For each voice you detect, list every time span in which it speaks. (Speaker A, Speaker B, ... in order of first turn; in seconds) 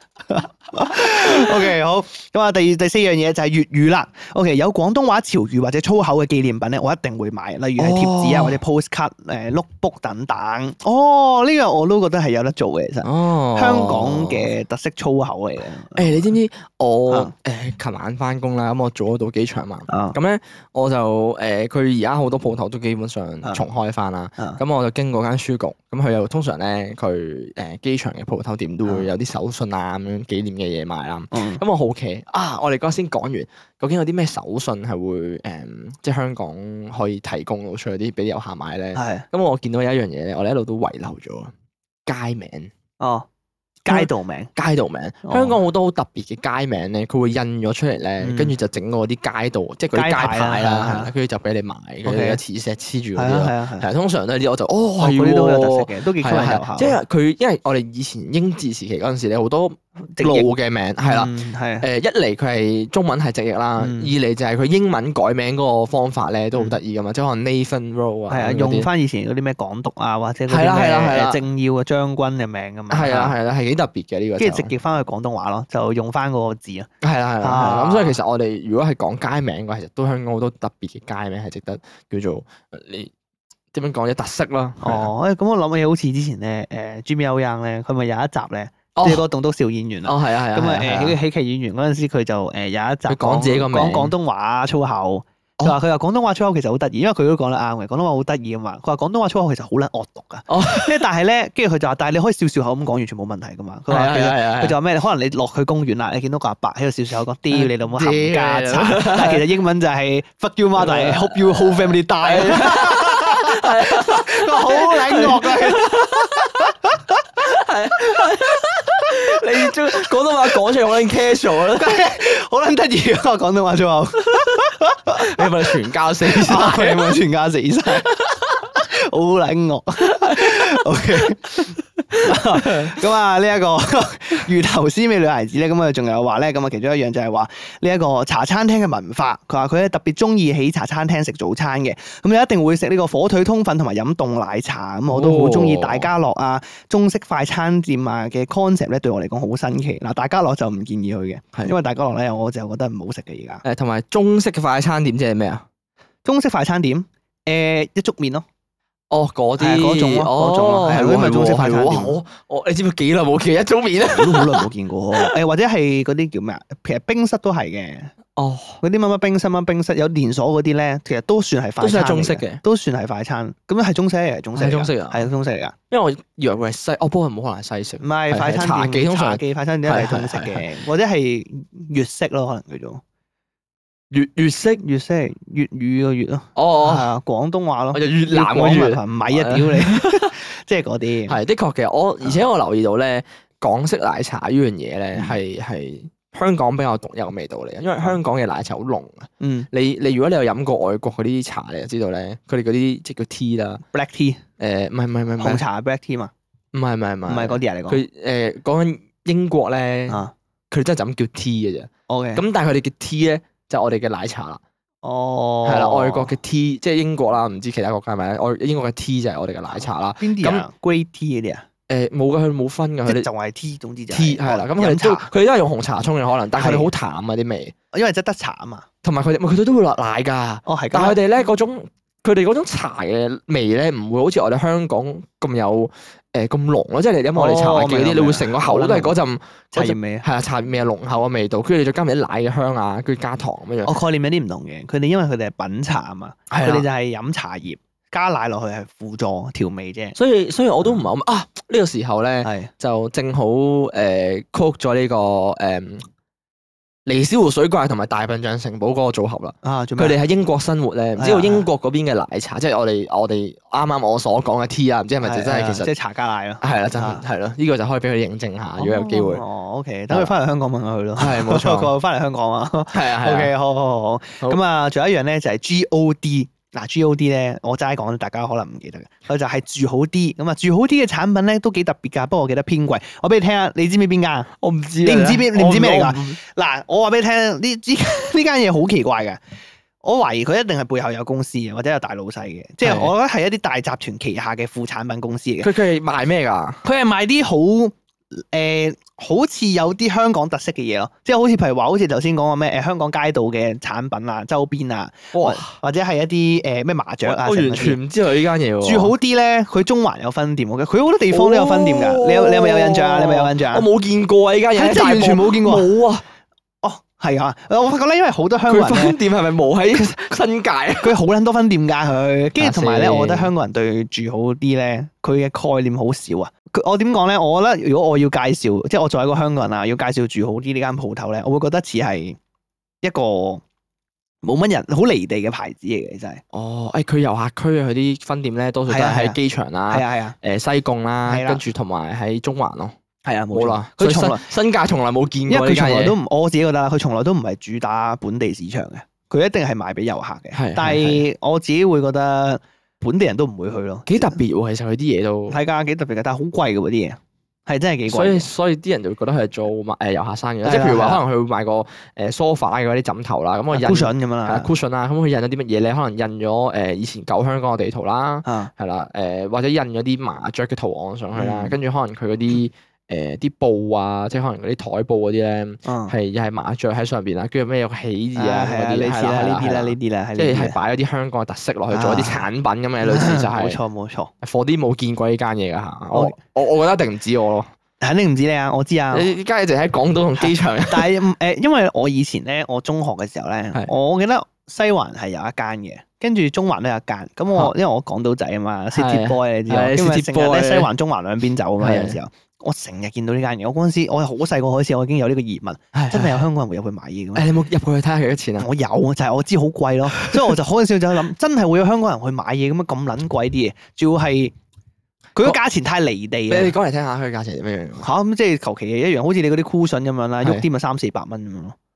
Speaker A: 0.3-16.3, 19.9-20.1, 31.3-31.6, 38.9-39.2, 43.0-43.2, 43.8-44.5, 45.2-45.6, 48.2-48.5, 49.9-51.1, 52.0-52.4, 53.1-53.9, 55.0-57.0, 60.1-60.5, 61.0-61.9, 63.8-64.1, 68.3-73.4, 74.4-76.9, 77.4-78.2, 84.8-117.1, 121.7-153.6, 156.2-158.4, 159.6-162.2, 164.1-168.1, 168.8-175.7, 178.0-183.0, 184.8-191.4, 199.4-199.7, 203.9-204.4, 205.4-206.3, 207.3-208.0, 212.1-212.4, 215.0-216.3, 219.7-221.6, 223.1-225.3, 226.6-226.9, 227.9-228.8, 230.7-231.2, 237.3-239.2, 239.7-240.2, 243.8-250.2, 252.4-252.7, 259.6-260.2, 261.2-261.6, 265.2-267.2, 268.8-284.5, 285.0-289.4, 290.0-295.7, 296.8-308.0, 308.8-313.9, 314.7-315.9, 316.8-319.2, 321.0-332.4, 333.0-333.6, 334.4-336.4, 338.9-339.4, 339.9-340.4, 341.3-341.6, 343.2-344.5, 345.5-354.4, 355.5-358.5, 360.6-361.2, 363.7-364.7, 368.4-368.7, 371.3-371.8, 375.8-376.1, 378.4-380.8, 381.9-382.5, 383.0-384.3, 388.0-389.3, 390.4-407.5, 408.6-414.5, 415.4-416.7, 418.0-421.8
Speaker B: 1.1-1.7, 7.8-8.6, 13.0-14.5, 15.9-41.5, 42.0-42.7, 43.9-68.9, 70.5-71.4, 72.9-74.7, 77.0-83.1, 83.7-85.1, 89.0-89.2, 90.0-91.2, 93.1-94.1, 100.5-101.0, 103.9-104.8, 107.5-109.4, 110.8-116.7, 117.4-122.0, 125.1-127.2, 130.2-131.2, 132.1-133.0, 145.1-146.1, 153.6-155.6, 159.1-165.3, 168.3-168.8, 171.8-172.6, 174.6-175.2, 175.9-180.6, 184.1-184.8, 186.6-187.1, 187.9-190.3, 191.3-203.8, 204.6-205.6, 206.7-214.6, 215.6-220.6, 221.9-223.3, 224.1-227.7, 229.0-243.9, 246.5-246.8, 250.2-256.1, 257.1-265.9, 266.6-269.4, 271.2-271.9, 272.9-273.5, 284.6-286.4, 292.8-293.1, 295.6-296.8, 305.3-305.7, 307.2-309.1, 311.3-316.2, 318.7-321.1, 322.6-323.5, 336.5-342.9, 343.5-346.1, 350.5-351.2, 354.1-355.6, 358.1-383.8, 384.4-387.7, 389.1-391.1, 398.9-400.9, 401.8-402.2, 405.9-406.4, 407.3-408.7, 410.3-410.5, 416.5-418.1